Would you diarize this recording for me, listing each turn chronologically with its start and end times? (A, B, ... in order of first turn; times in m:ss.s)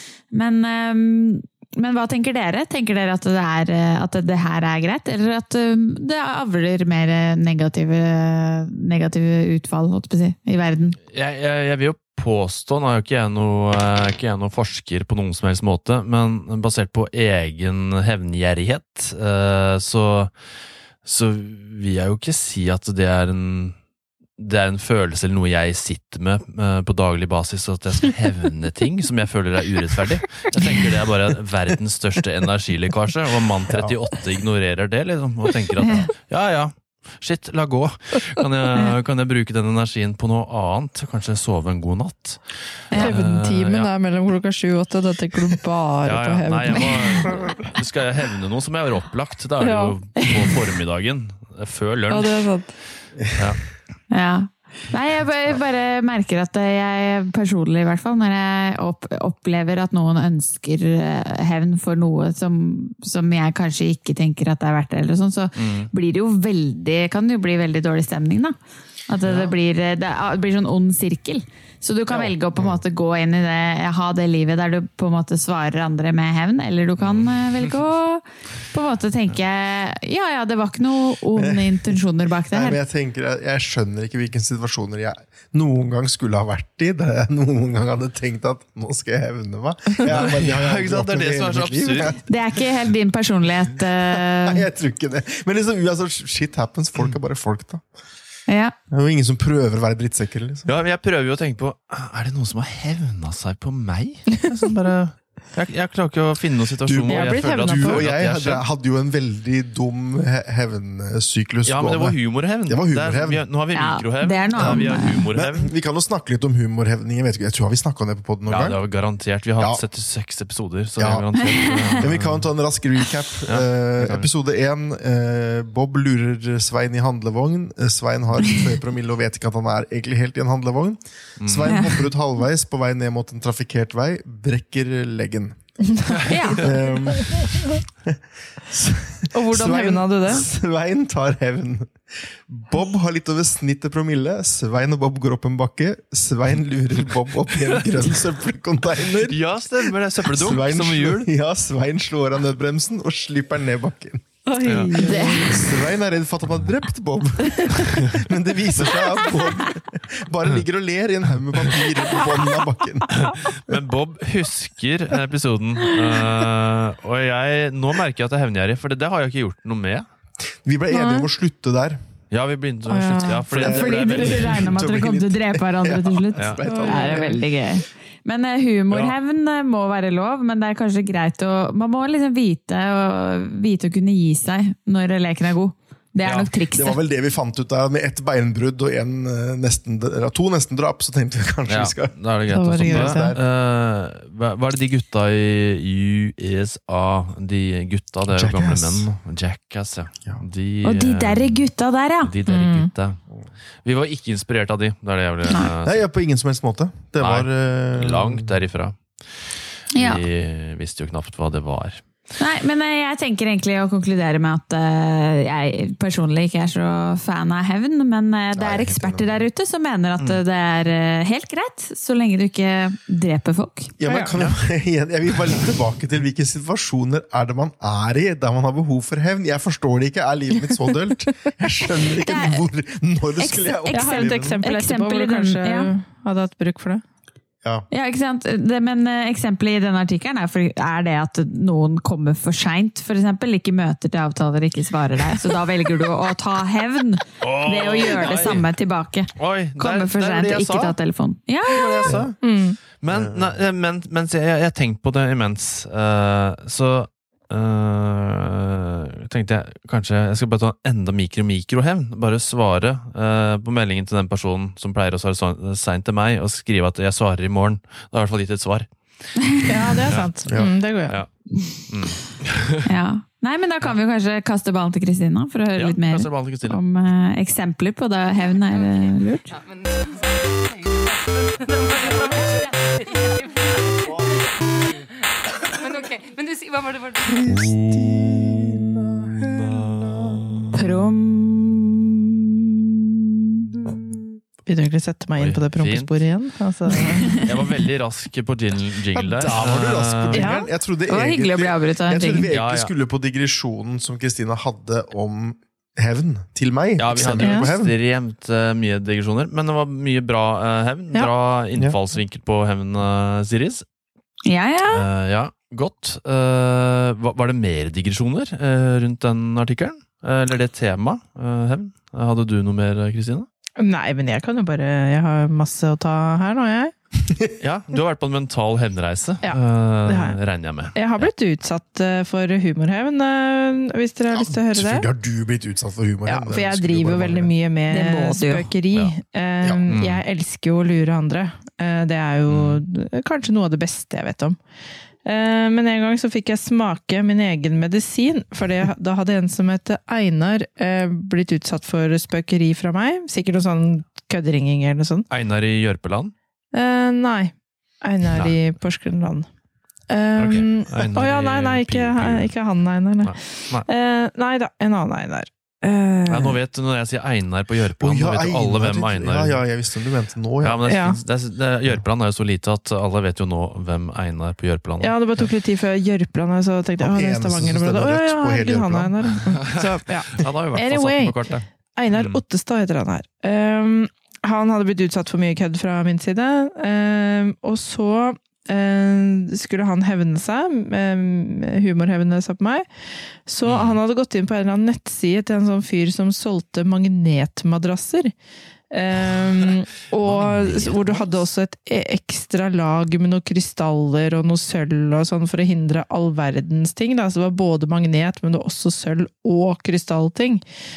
0:00.3-0:11.0 A
0:11.1-0:20.3 B
0:21.0-0:23.8 B
0:24.4-0:43.9 B
0:33.7-0:34.0 C
0:35.8-0:36.1 A
0:42.9-0:43.2 A
0:42.9-0:47.6 D
0:46.0-0:52.5 B
0:49.6-0:50.4 D
0:52.1-0:52.7 D
0:53.2-0:53.6 B
0:54.1-1:08.6 A
1:05.6-1:05.9 B
1:09.1-1:22.8 A
1:09.2-1:09.5 B
1:17.0-1:17.7 B
1:21.4-1:32.2 C
1:30.0-1:32.1 B
1:32.3-1:34.6 A
1:34.1-1:37.8 C
1:38.5-1:38.7 A
1:38.9-1:40.7 C
1:40.6-1:48.6 B
1:46.8-1:53.4 C
1:47.1-1:48.0 D
1:51.6-1:55.7 B
1:53.7-1:55.2 A
1:54.6-1:58.8 C
1:58.5-2:02.4 B
2:01.0-2:01.3 C
2:01.9-2:15.6 C
2:03.5-2:04.3 B
2:11.4-2:11.9 B
2:15.9-2:16.6 D
2:16.3-2:16.7 A
2:16.6-2:43.7 C
2:19.3-2:20.4 D
2:27.5-2:28.0 B
2:29.2-2:31.3 B
2:34.4-2:35.7 D
2:34.6-2:34.9 B
2:34.9-2:35.6 A
2:43.2-2:50.1 B
2:50.6-2:52.0 C
2:50.9-2:51.3 D
2:52.3-2:54.8 B
2:52.9-2:53.4 D
2:53.5-2:57.4 C
2:53.6-3:07.0 A
2:56.4-2:56.6 B
2:56.6-2:57.4 D
3:06.2-3:06.5 B
3:06.7-3:12.2 C
3:11.7-3:21.6 B
3:12.5-3:13.2 D
3:12.8-3:13.4 C
3:18.3-3:19.1 C
3:20.8-3:22.3 A
3:22.2-3:23.2 B
3:22.5-3:22.9 D
3:23.8-3:26.0 B
3:25.8-3:28.5 C
3:27.2-3:32.0 B
3:29.9-3:30.2 A
3:32.4-3:43.9 A
3:38.5-3:39.4 C
3:44.0-3:54.6 C
3:44.0-3:44.3 D
3:44.3-3:44.6 B
3:52.2-3:52.6 A
3:53.4-3:55.9 A
3:53.9-3:57.0 D
3:57.9-4:12.1 A
4:07.4-4:08.6 B
4:09.3-4:11.0 B
4:11.7-4:12.4 B
4:12.0-4:12.3 C
4:12.4-4:12.8 D
4:13.0-4:29.4 B
4:13.1-4:13.6 C
4:29.7-4:31.2 D
4:30.0-4:31.3 B
4:30.4-4:30.7 C
4:31.9-4:32.8 B
4:32.8-4:39.5 A
4:35.8-4:36.8 B
4:38.6-4:47.5 E
4:47.2-4:50.7 C
4:47.4-4:50.8 B
4:50.7-4:52.0 A
4:53.8-4:54.2 C
4:54.7-4:57.4 D
4:55.4-4:56.2 B
4:57.1-4:57.4 A
4:57.4-5:00.6 B
4:59.1-5:07.9 C
5:00.3-5:00.7 D
5:01.1-5:02.5 A
5:02.5-5:02.9 B
5:07.0-5:13.8 B
5:07.4-5:07.7 D
5:14.4-5:15.0 A
5:14.9-5:23.5 B
5:23.8-5:26.9 D
5:27.2-5:27.5 C
5:27.6-5:31.3 B
5:29.4-5:30.4 D
5:30.9-5:35.0 D
5:34.3-5:37.5 C
5:36.2-5:44.6 D
5:37.9-5:38.7 A
5:39.6-5:39.9 C
5:39.9-5:40.2 B
5:42.5-5:42.8 B
5:45.2-5:55.2 D
5:55.3-5:56.3 B
5:56.7-5:59.5 D
6:00.1-6:06.6 D
6:00.4-6:02.5 B
6:03.2-6:03.9 B
6:06.3-6:09.6 B
6:08.0-6:10.8 C
6:10.6-6:15.4 B
6:10.8-6:11.2 D
6:15.0-6:21.4 D
6:17.0-6:19.1 C
6:19.5-6:22.4 B
6:22.0-6:32.8 D
6:33.4-6:38.3 D
6:33.6-6:34.0 B
6:38.9-6:50.6 D
6:40.2-6:41.3 B